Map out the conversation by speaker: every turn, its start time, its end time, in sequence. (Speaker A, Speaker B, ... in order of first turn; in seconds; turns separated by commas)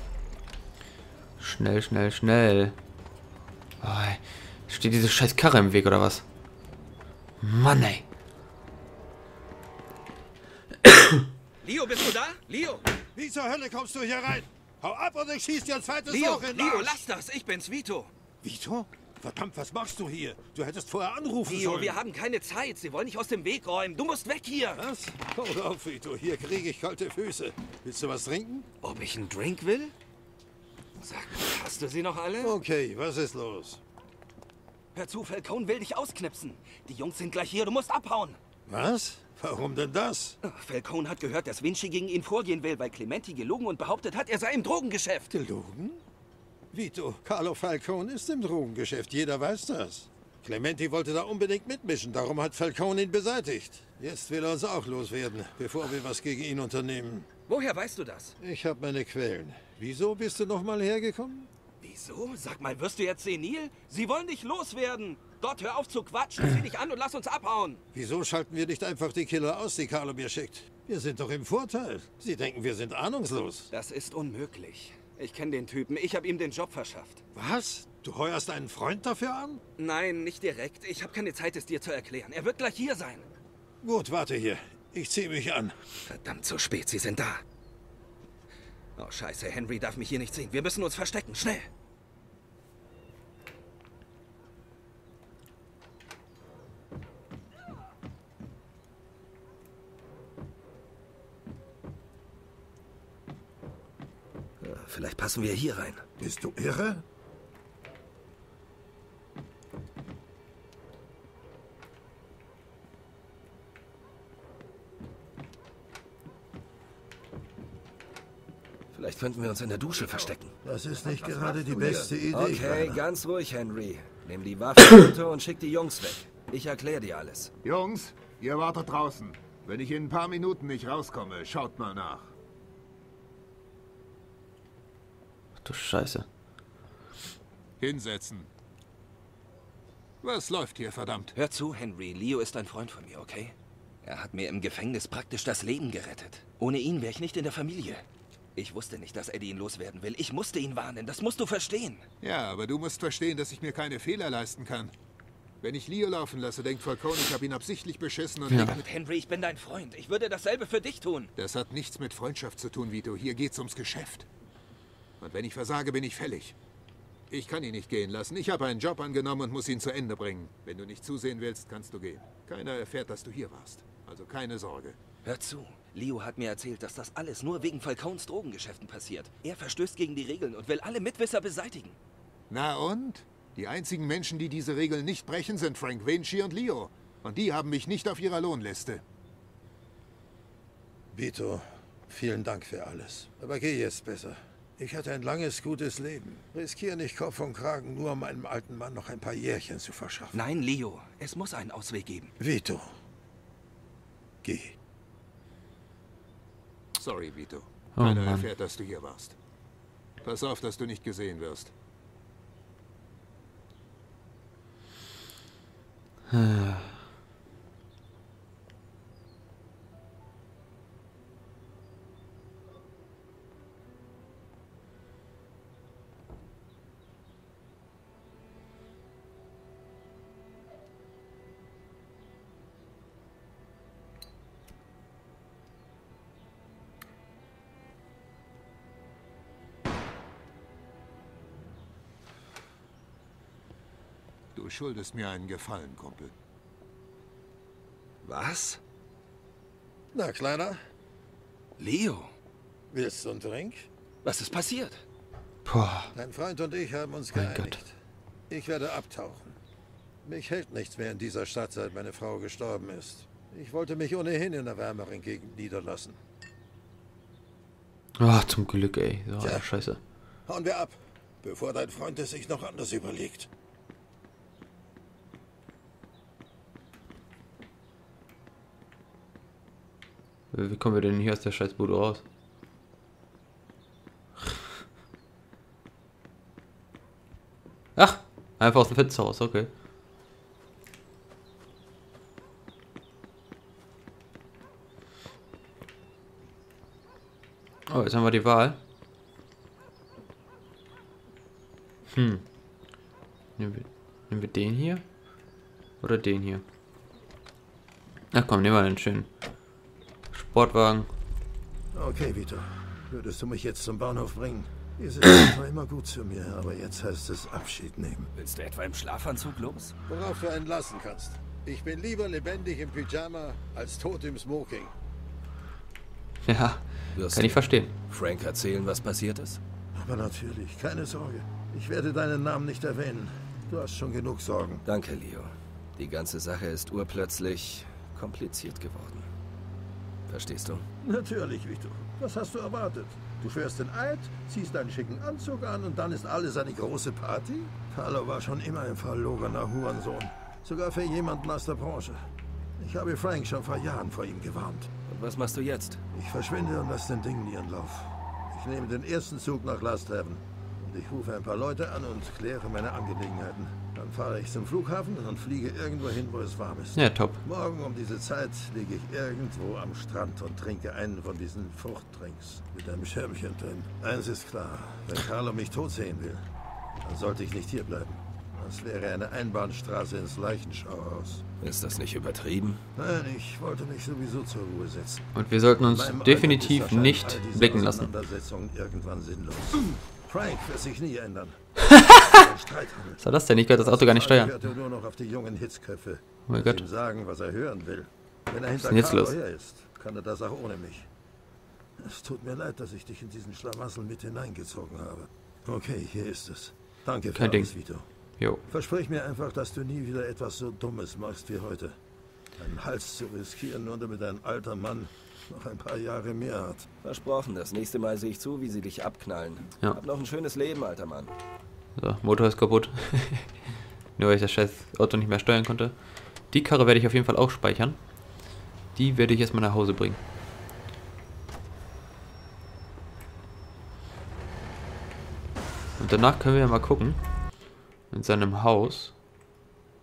Speaker A: 1.4-2.8, Speaker A: 3.8-6.2, Speaker A: 7.4-8.0, Speaker A: 10.9-11.2, Speaker B: 11.6-12.8, Speaker C: 13.1-17.0, Speaker B: 16.1-18.1, Speaker C: 18.4-22.0, Speaker B: 21.4-24.8, Speaker C: 24.7-28.7, Speaker B: 28.8-29.9, Speaker B: 31.0-32.5, Speaker C: 32.4-33.8, Speaker B: 34.9-38.4, Speaker C: 38.7-40.4, Speaker B: 40.4-45.3, Speaker C: 45.3-46.0, Speaker C: 46.7-57.3, Speaker B: 57.5-58.3, Speaker C: 58.4-61.5, Speaker B: 61.8-67.8, Speaker C: 67.9-73.7, Speaker B: 73.7-77.2, Speaker C: 77.3-79.6, Speaker B: 79.8-83.3, Speaker C: 83.8-85.8, Speaker B: 86.0-87.4, Speaker B: 89.0-91.7, Speaker D: 104.6-106.0, Speaker C: 106.2-107.0, Speaker D: 118.9-120.5, Speaker C: 120.6-123.0, Speaker D: 121.1-127.5, Speaker E: 127.6-132.3, Speaker A: 135.6-136.2, Speaker E: 137.8-138.5, Speaker E: 140.2-141.3, Speaker B: 141.3-148.0, Speaker B: 148.6-152.0, Speaker E: 152.2-154.9, Speaker E: 155.6-158.9, Speaker B: 158.6-161.3, Speaker E: 161.4-164.3, Speaker E: 165.2-166.6, Speaker E: 167.3-175.0, Speaker B: 175.2-182.0, Speaker E: 182.5-189.0, Speaker C: 191.1-200.4, Speaker B: 200.3-202.3, Speaker C: 202.4-202.9, Speaker C: 204.4-204.8, Speaker E: 206.9-209.4, Speaker A: 207.9-208.5, Speaker E: 210.2-211.7, Speaker A: 216.3-217.0, Speaker E: 244.5-246.3, Speaker B: 248.2-248.8, Speaker C: 250.1-250.8, Speaker B: 251.8-252.3, Speaker C: 252.9-253.9, Speaker B: 254.2-255.0, Speaker A: 255.6-256.1, Speaker C: 256.1-257.9, Speaker A: 257.3-257.8, Speaker C: 258.5-259.6, Speaker C: 260.2-266.2, Speaker A: 268.2-270.0, Speaker C: 269.4-269.7, Speaker C: 270.4-273.5, Speaker A: 280.5-282.2, Speaker A: 287.9-289.7, Speaker A: 297.9-298.8, Speaker A: 302.1-302.4, Speaker A: 303.6-305.0, Speaker A: 306.0-306.6, Speaker A: 308.3-309.3, Speaker A: 310.3-311.1, Speaker C: 311.9-318.3, Speaker B: 318.4-319.9, Speaker C: 320.1-324.9, Speaker A: 326.4-327.9, Speaker D: 327.1-329.6, Speaker C: 329.9-334.8, Speaker D: 334.8-339.3, Speaker D: 340.3-340.9, Speaker C: 341.0-354.9, Speaker D: 355.1-356.0, Speaker C: 356.1-376.4, Speaker A: 366.9-367.4, Speaker C: 377.0-381.4, Speaker D: 381.6-382.8, Speaker C: 382.9-385.2, Speaker A: 385.3-388.1, Speaker C: 385.8-391.6, Speaker A: 391.9-392.4, Speaker C: 392.3-401.1, Speaker A: 393.2-394.5, Speaker A: 396.5-396.8, Speaker A: 398.7-399.3, Speaker C: 402.0-408.1, Speaker A: 407.3-407.7, Speaker C: 408.7-411.9, Speaker C: 412.6-416.9, Speaker D: 417.0-421.3, Speaker A: 422.0-423.6, Speaker A: 424.1-428.0, Speaker A: 428.9-430.2, Speaker A: 436.0-437.3, Speaker A: 438.1-439.1